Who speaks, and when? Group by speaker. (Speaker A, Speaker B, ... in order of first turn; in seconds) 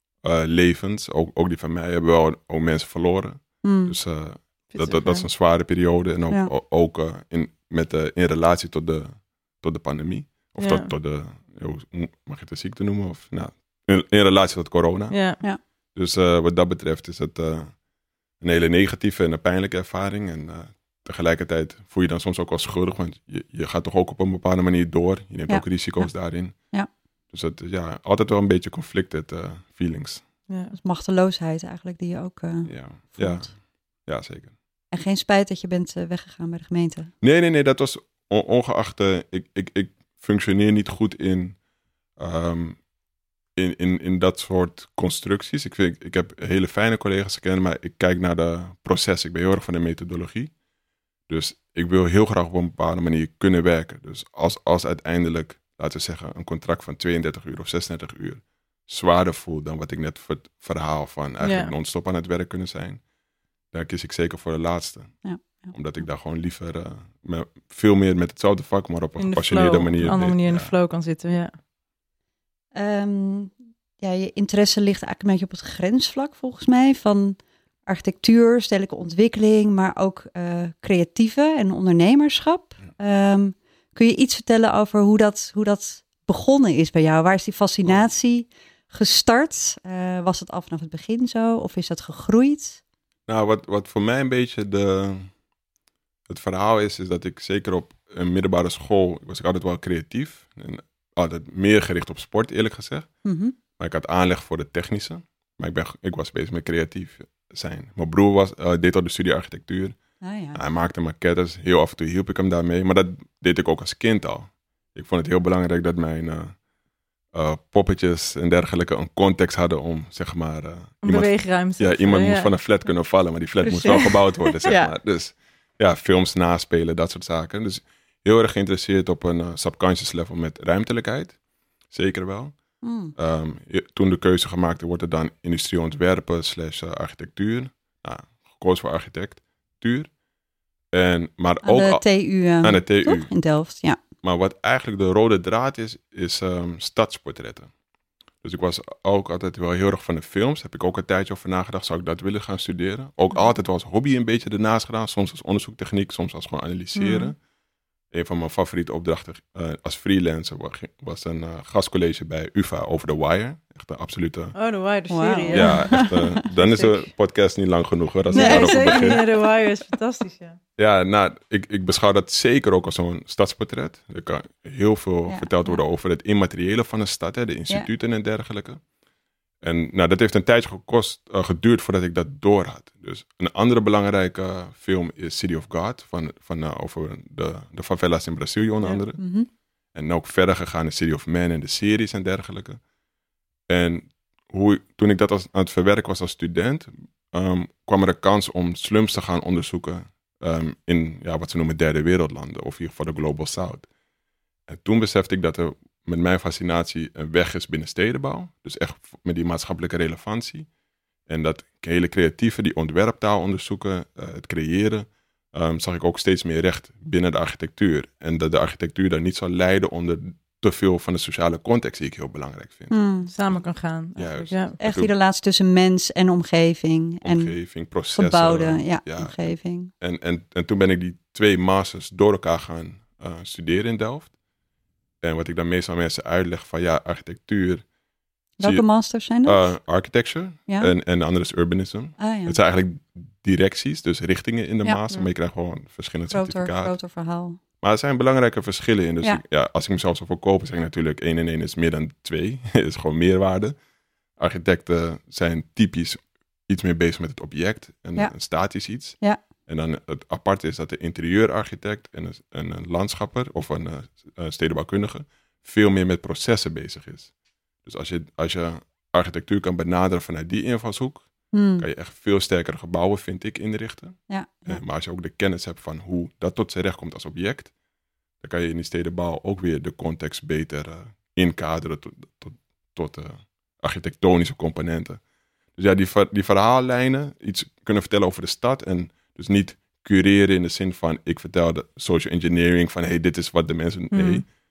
Speaker A: 0.2-15.2, 15.9-17.7, 18.4-26.6, 27.3-30.2, 32.7-33.5, 34.0-34.5, 37.2-41.6, 42.2-42.8, 43.5-50.5, 51.3-63.0, 63.7-65.2, 65.7-70.7, 93.3-95.3, 96.3-103.1, 103.8-110.0, 110.5-116.5, 117.3-131.4, 131.9-132.6, 133.2-140.1, 140.9-142.0, 142.6-143.3, 144.2-147.7, 148.4-157.4, 158.1-164.6, 165.5-169.2, 170.8-178.8, 179.6-189.2, 189.9-192.8, 193.7-203.9, 204.7-210.7, 211.3-222.9, 224.2-225.1, 227.2-234.3, 235.2-237.8, 239.4-246.9, 247.8-253.8, 254.4-267.3, 267.8-271.3, 271.8-277.7, 278.4-285.2, 285.8-294.5
Speaker B: 3.6-4.0, 30.7-33.5, 34.9-37.1, 65.2-65.7, 72.7-92.8, 103.2-103.5, 110.2-110.6, 123.6-124.9, 132.8-133.1, 141.6-144.0, 165.1-166.4, 168.3-169.3, 175.3-175.8, 189.2-189.5, 222.9-223.3, 224.8-227.5, 228.1-229.9, 238.6-239.7, 242.2-242.6, 246.3-247.6, 271.5-271.9, 274.3-274.8
Speaker C: 4.7-5.2, 10.6-10.9, 15.1-15.4, 30.5-30.7, 61.4-61.7, 69.2-71.5, 121.0-122.5, 156.9-157.3, 164.5-166.9, 168.3-170.6, 223.3-224.8, 294.1-294.4